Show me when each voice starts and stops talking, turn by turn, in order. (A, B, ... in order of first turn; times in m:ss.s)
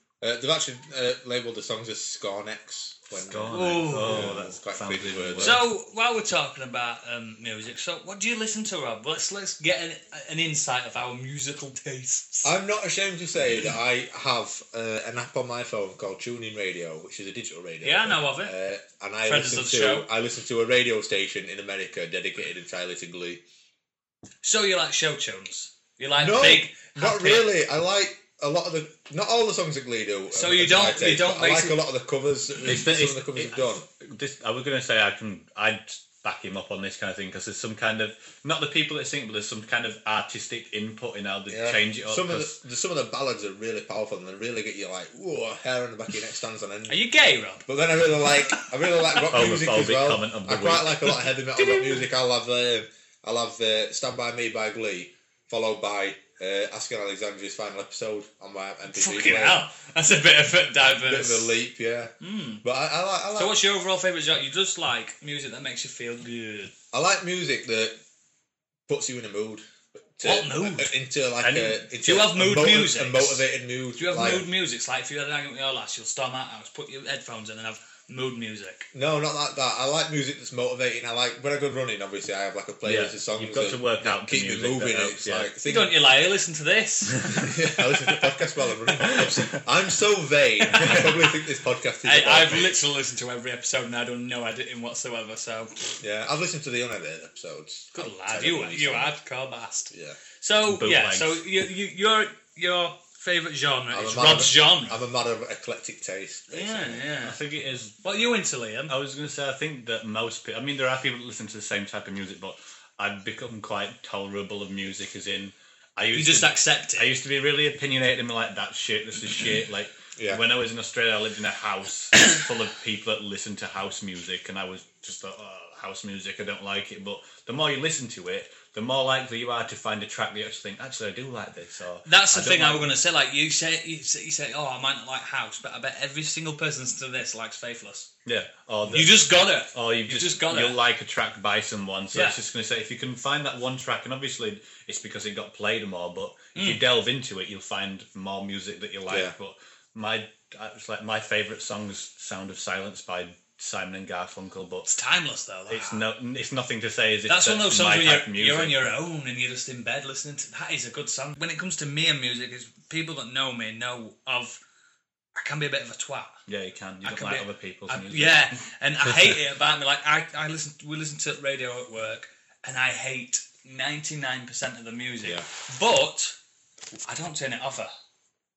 0:00.2-0:05.6 A
0:03.1-0:05.6 B
0:03.5-0:04.3 C
0:05.4-0:12.6 C
0:12.4-0:23.4 A
0:17.8-0:18.5 C
0:19.2-0:20.1 C
0:24.4-0:27.5 C
0:26.2-0:33.8 A
0:30.3-0:31.8 C
0:32.6-0:42.5 B
0:41.5-0:47.0 A
0:46.9-0:47.7 C
0:47.6-0:59.6 A
0:48.2-0:48.7 C
0:49.2-0:51.2 B
0:51.6-0:52.0 C
0:58.9-1:01.6 C
1:00.9-1:03.6 A
1:02.2-1:02.6 C
1:03.3-1:06.7 C
1:06.9-1:08.0 A
1:08.9-1:14.5 A
1:10.2-1:10.9 C
1:11.4-1:11.8 B
1:12.0-1:13.4 C
1:14.0-1:18.9 C
1:18.9-1:26.0 A
1:22.8-1:25.5 B
1:25.6-1:27.2 C
1:27.2-1:27.6 B
1:27.4-1:32.8 A
1:29.0-1:29.3 B
1:30.7-1:31.2 B
1:32.0-1:36.0 C
1:36.0-1:39.2 A
1:37.9-1:45.0 C
1:39.9-1:40.2 A
1:40.7-1:41.4 B
1:43.9-1:47.0 A
1:46.5-1:47.4 C
1:47.2-1:48.0 B
1:48.0-1:48.9 C
1:48.9-2:12.9 B
1:56.1-1:57.1 C
2:00.2-2:00.4 A
2:12.1-2:18.1 C
2:18.2-2:34.9 B
2:18.9-2:20.8 C
2:22.1-2:22.4 C
2:26.6-2:26.8 C
2:29.1-2:29.3 A
2:34.9-2:36.0 C
2:35.7-2:38.9 B
2:37.3-2:44.6 C
2:45.4-2:46.4 C
2:46.5-2:48.6 B
2:47.0-2:56.4 C
2:57.0-2:57.9 C